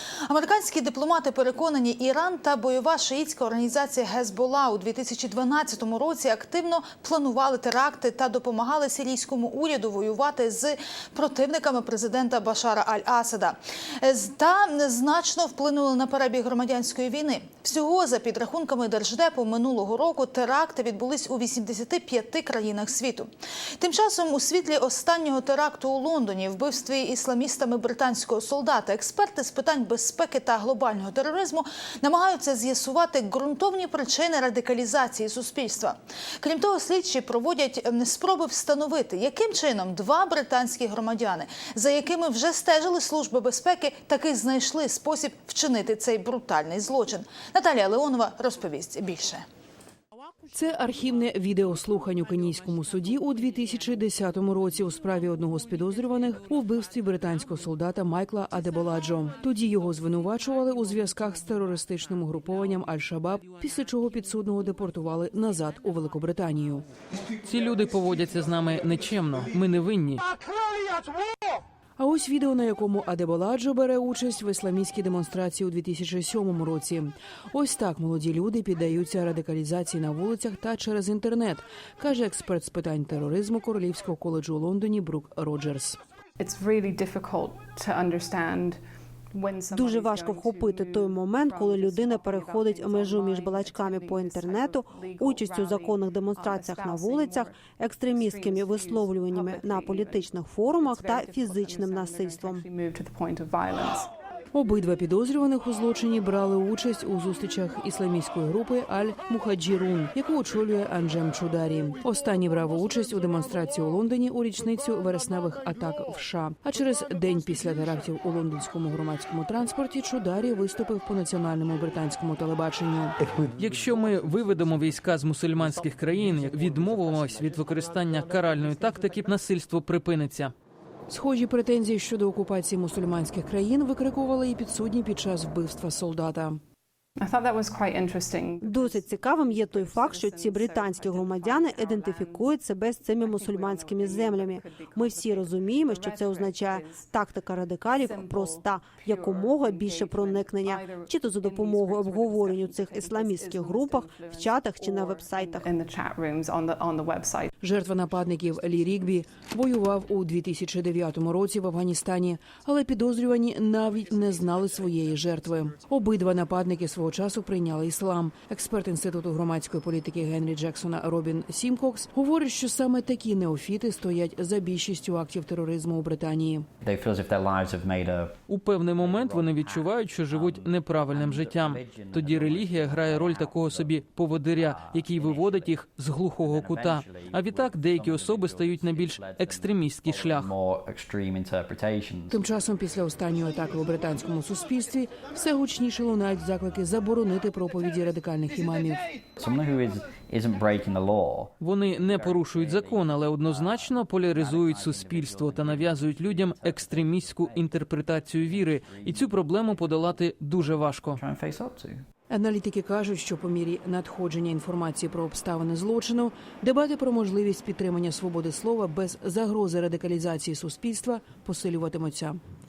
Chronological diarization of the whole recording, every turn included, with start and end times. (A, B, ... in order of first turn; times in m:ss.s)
0:00.3-0:49.4 A
0:50.5-1:06.8 B
1:07.4-1:10.3 C
1:12.0-1:26.0 B
1:26.4-1:28.8 D
1:29.3-1:44.1 D
1:29.7-1:42.6 E
1:44.5-2:03.2 B
2:03.5-2:10.5 C
2:11.1-2:16.6 B
2:17.2-2:27.2 D
2:18.6-2:35.7 E
2:27.8-2:37.5 D
2:37.6-2:56.6 B
2:56.8-2:58.4 F
2:58.5-3:10.5 C
2:58.9-3:05.8 F
3:06.4-3:12.4 F
3:12.3-3:19.0 B
3:19.4-3:30.2 F
3:21.6-3:31.2 C
3:31.0-3:32.0 F
3:32.3-3:42.4 B